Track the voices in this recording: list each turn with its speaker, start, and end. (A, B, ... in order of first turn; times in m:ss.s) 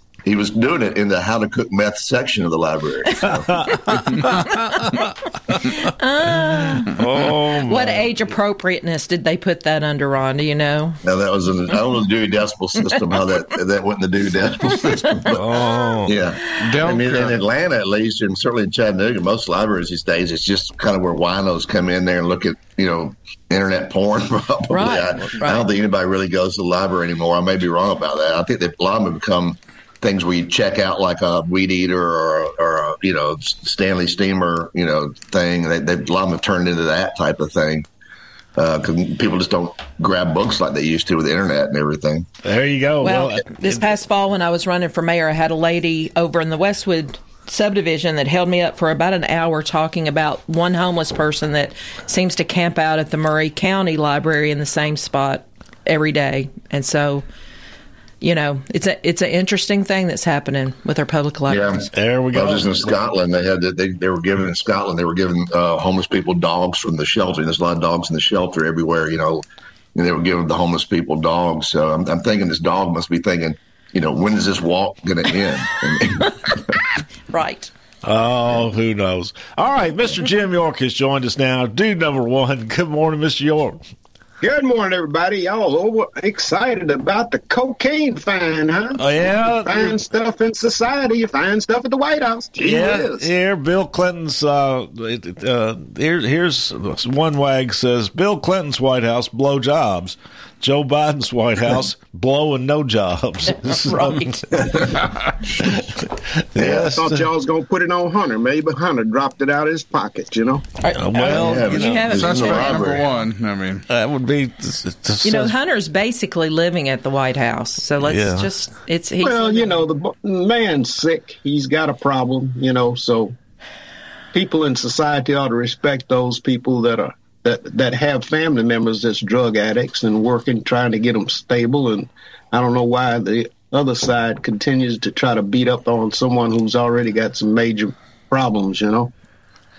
0:00.2-0:03.5 A
0:03.3-0:05.5 B
0:04.3-0:04.8 C
0:05.6-0:06.9 C
0:07.0-0:08.1 B
0:07.6-0:11.0 C
0:11.0-0:15.4 A
0:15.3-0:16.2 B
0:15.5-0:15.9 C
0:16.0-0:37.9 A
0:16.6-0:17.4 D
0:24.7-0:25.7 C
0:38.6-0:42.3 A
0:42.4-0:43.8 B
0:43.0-0:57.2 C
0:58.2-1:01.9 C
1:01.5-1:16.6 A
1:01.9-1:02.8 B
1:17.3-1:17.7 C
1:18.0-1:23.8 B
1:24.4-1:29.0 E
1:29.0-1:29.9 B
1:29.6-1:33.3 E
1:32.6-1:45.0 B
1:43.5-1:44.6 C
1:45.5-1:47.3 B
1:46.6-1:46.9 A
1:46.6-1:50.6 E
1:50.8-1:52.8 C
1:50.9-1:52.2 B
1:51.3-1:53.1 A
1:52.1-1:53.8 D
1:53.9-1:55.5 B
1:55.2-1:59.9 C
1:58.0-1:58.5 B
1:59.2-2:03.3 E
2:04.3-2:19.1 E